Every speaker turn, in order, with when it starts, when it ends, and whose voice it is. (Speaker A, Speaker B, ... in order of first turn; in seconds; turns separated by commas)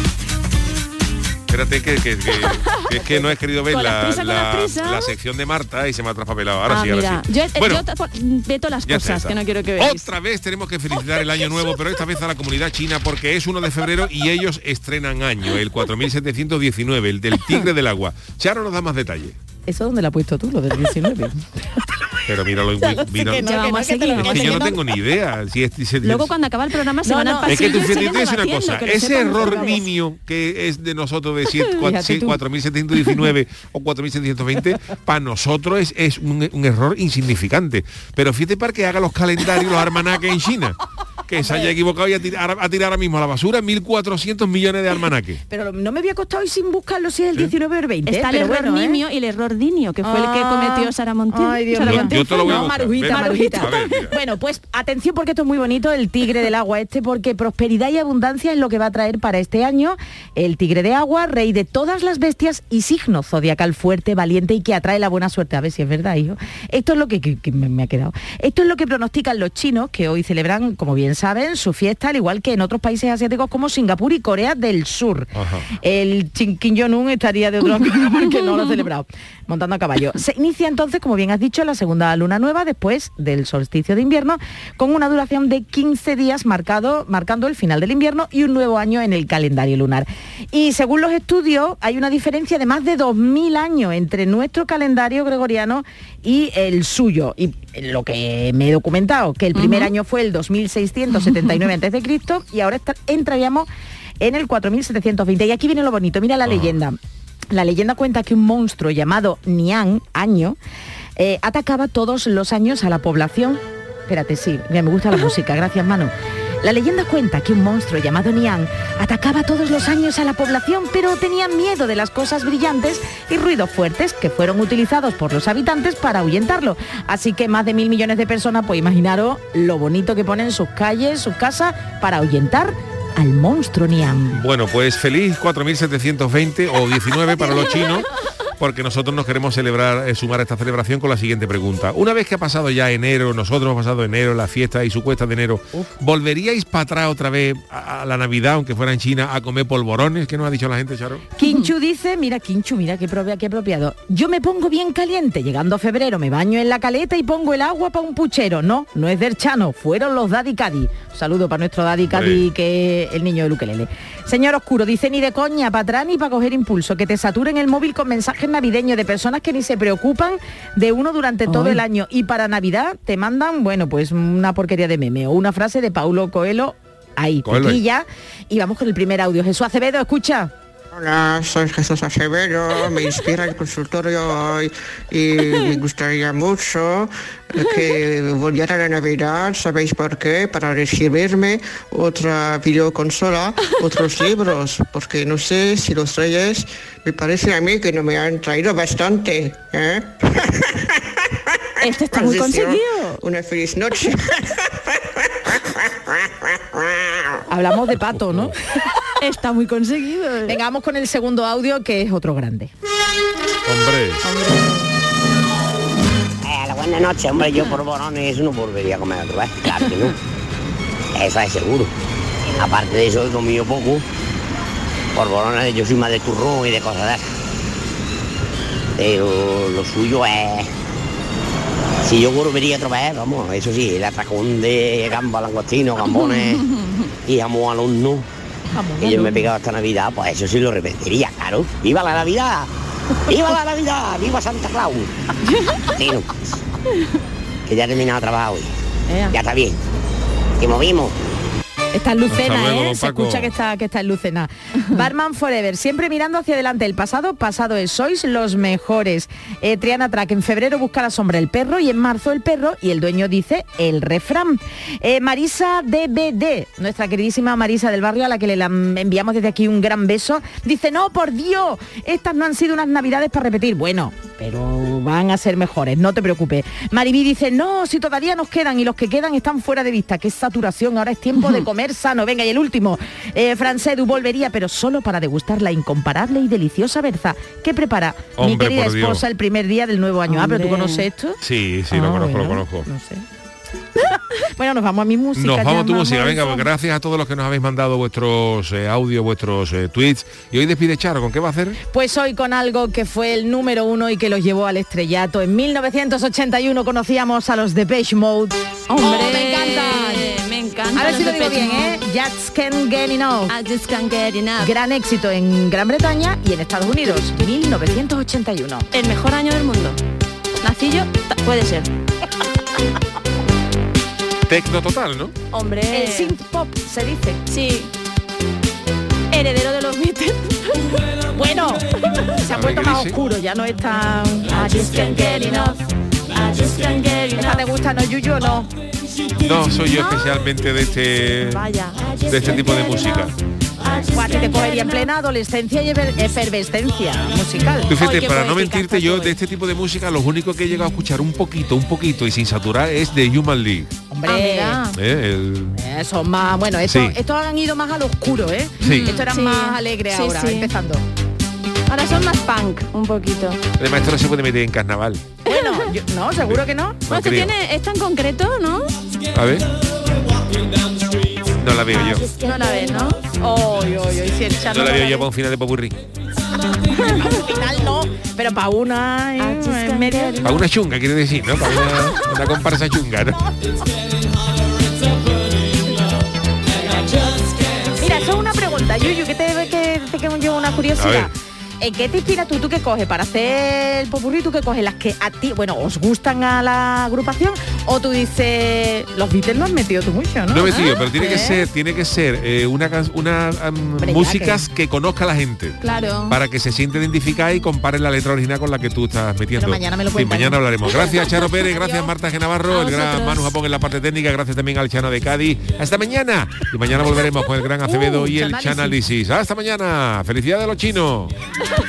Speaker A: 1.5-7.8, Speaker B: 2.7-3.0, Speaker B: 3.7-5.1, Speaker B: 6.7-10.1, Speaker A: 8.8-19.4, Speaker C: 19.7-22.1, Speaker A: 22.2-26.3, Speaker C: 22.7-24.8, Speaker B: 23.4-24.7, Speaker B: 26.0-29.9, Speaker C: 27.0-27.8, Speaker A: 27.4-45.4, Speaker C: 31.8-32.4, Speaker C: 41.4-41.7, Speaker C: 45.5-49.0, Speaker B: 48.0-54.1, Speaker C: 50.0-103.7, Speaker A: 51.7-54.1, Speaker A: 75.3-75.7, Speaker B: 99.5-99.9, Speaker C: 104.2-107.0, Speaker A: 106.5-106.7, Speaker C: 107.5-110.6, Speaker C: 111.2-116.1, Speaker C: 116.6-134.4, Speaker A: 134.3-151.3, Speaker B: 137.6-137.8, Speaker C: 151.3-180.5, Speaker B: 151.4-151.7, Speaker A: 162.1-162.5, Speaker B: 171.5-171.8, Speaker A: 177.4-177.8, Speaker D: 180.9-207.2, Speaker B: 185.4-185.8, Speaker B: 201.8-203.2, Speaker C: 207.5-208.9, Speaker A: 207.9-208.5, Speaker B: 209.2-210.6, Speaker C: 210.5-212.7, Speaker A: 213.7-214.2, Speaker B: 214.2-214.9, Speaker E: 216.4-220.2, Speaker E: 221.1-221.9, Speaker E: 222.6-224.0, Speaker E: 225.1-227.3, Speaker E: 229.0-230.7, Speaker E: 232.0-236.7, Speaker B: 236.6-237.0, Speaker E: 237.2-238.2, Speaker C: 238.7-239.5, Speaker E: 239.0-242.7, Speaker E: 243.3-245.1, Speaker B: 245.5-245.8, Speaker E: 245.8-246.4, Speaker E: 247.7-248.7, Speaker B: 249.1-249.3, Speaker E: 249.3-249.8, Speaker E: 250.6-251.1, Speaker C: 251.9-291.4, Speaker A: 252.3-253.5, Speaker A: 288.4-289.2, Speaker B: 290.3-291.0, Speaker A: 291.4-292.9, Speaker C: 291.9-293.2, Speaker C: 294.0-296.6, Speaker A: 295.3-301.8, Speaker C: 301.9-310.3, Speaker B: 308.9-312.0, Speaker C: 310.9-313.5, Speaker B: 313.5-314.7, Speaker C: 314.6-318.9, Speaker B: 318.9-320.0, Speaker B: 320.6-321.9, Speaker A: 324.4-325.3, Speaker B: 325.5-326.4, Speaker C: 325.9-327.4, Speaker B: 327.5-327.9, Speaker B: 329.3-331.0, Speaker C: 331.3-335.7, Speaker A: 332.5-333.2, Speaker B: 334.5-337.6, Speaker C: 337.4-338.7, Speaker A: 339.4-341.7, Speaker B: 339.8-340.4, Speaker B: 341.4-345.1, Speaker A: 342.3-343.3, Speaker C: 343.9-347.9, Speaker A: 347.9-353.9, Speaker B: 347.9-349.4, Speaker C: 354.1-354.8, Speaker B: 354.2-355.0, Speaker A: 354.9-355.8, Speaker C: 355.8-361.0, Speaker A: 356.8-357.2, Speaker A: 358.8-359.2, Speaker B: 358.8-360.7, Speaker B: 361.9-363.6, Speaker A: 363.8-365.3, Speaker B: 365.4-365.9, Speaker C: 365.4-367.0, Speaker A: 366.4-367.5, Speaker B: 367.1-368.9, Speaker A: 369.3-369.7, Speaker A: 371.4-372.2, Speaker C: 371.9-375.2, Speaker B: 372.3-373.2, Speaker A: 374.7-376.0, Speaker B: 376.8-377.5, Speaker C: 377.1-380.6, Speaker B: 379.4-380.5, Speaker A: 380.4-383.4, Speaker C: 386.7-401.6, Speaker A: 390.9-391.3, Speaker A: 400.5-405.8, Speaker B: 400.6-400.9, Speaker C: 404.0-404.6, Speaker B: 405.8-406.4, Speaker A: 406.3-421.4, Speaker C: 409.6-412.1, Speaker B: 412.7-413.5, Speaker C: 417.8-419.0